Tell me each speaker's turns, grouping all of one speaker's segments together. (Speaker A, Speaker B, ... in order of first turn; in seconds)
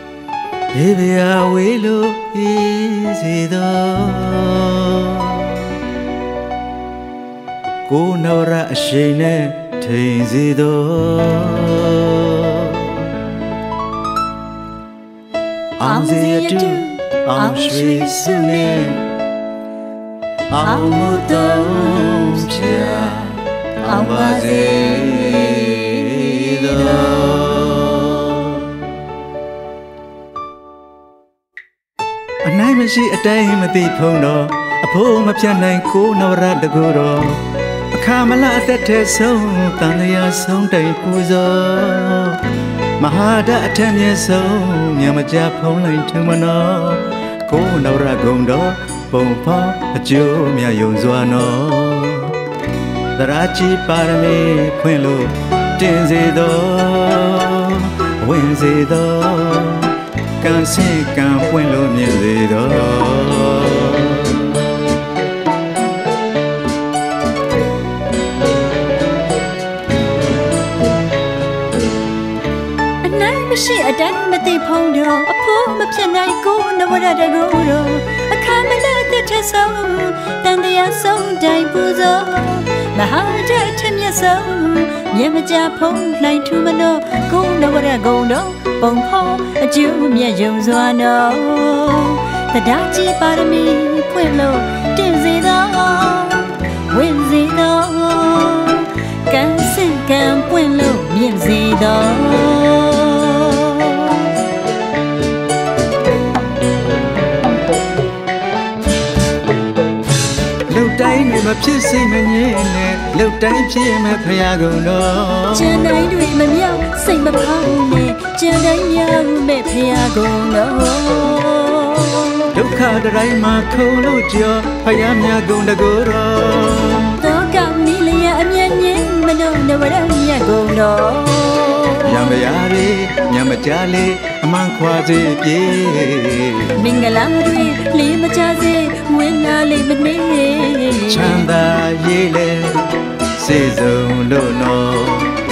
Speaker A: 0.7-5.7, 7.9-13.1, 15.8-19.1, 20.5-29.0, 32.4-52.4, 53.1-64.5, 110.7-115.8, 122.5-127.2, 132.0-136.8, 141.1-145.3
Speaker B: 15.8-18.9, 20.6-23.2, 23.8-26.1, 73.0-104.3, 115.5-122.6, 127.2-132.2, 136.8-141.5